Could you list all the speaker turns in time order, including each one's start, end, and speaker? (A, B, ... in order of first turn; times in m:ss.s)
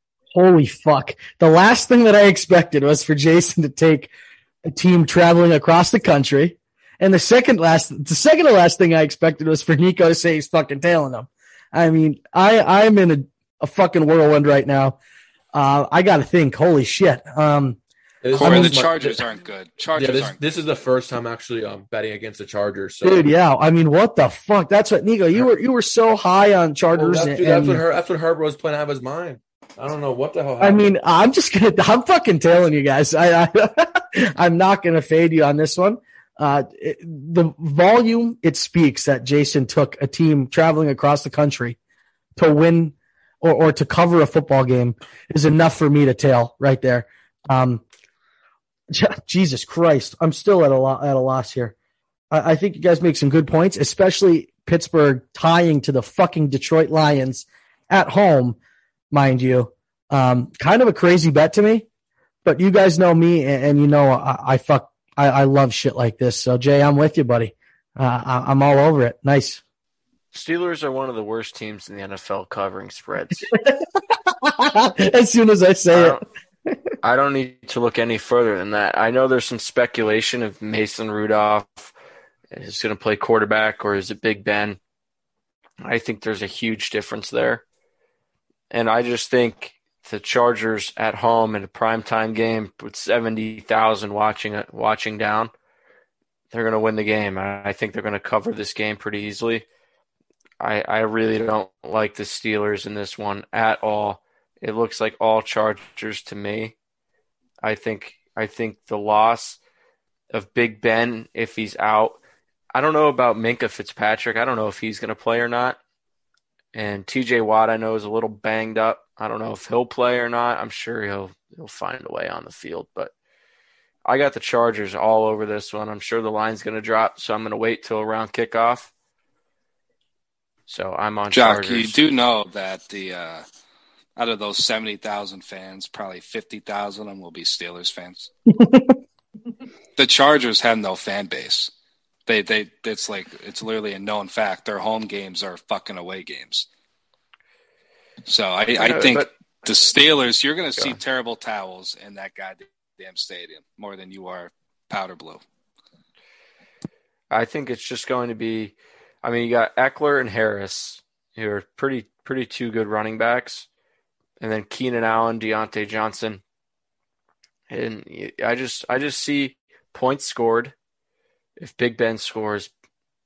0:00.3-0:04.1 A
0:04.6-0:15.0 A
0:15.5-0:17.8 A
0:18.2-0:19.2 B
0:18.3-0:20.4 C
0:18.4-0:18.7 A
0:20.0-0:23.3 B
0:23.0-0:27.8 A
0:26.9-0:30.8 B
0:30.6-0:41.8 A
0:42.4-0:47.8 A
0:48.9-0:51.7 A
0:52.3-0:58.6 A
0:59.1-1:01.8 A
1:02.4-1:09.6 A
1:10.3-1:13.5 D
1:13.5-1:16.2 A
1:15.9-1:16.2 D
1:17.0-1:21.9 D
1:22.5-1:24.8 D
1:25.8-1:27.6 D
1:28.7-1:35.5 D
1:36.5-1:39.6 D
1:40.6-1:46.7 D
1:47.6-1:49.6 D
1:50.3-1:52.2 D
1:52.7-1:55.8 D
1:56.7-2:03.1 D
2:04.0-2:08.9 D
2:10.7-2:12.0 D
2:11.3-2:13.4 C
2:14.2-2:18.3 C
2:18.5-2:19.0 A
2:20.0-2:21.7 C
2:22.2-2:26.7 C
2:28.2-2:35.4 C
2:28.8-2:29.3 D
2:37.3-2:43.7 D
2:44.4-2:46.4 D
2:47.7-2:50.7 D
2:51.6-2:52.7 D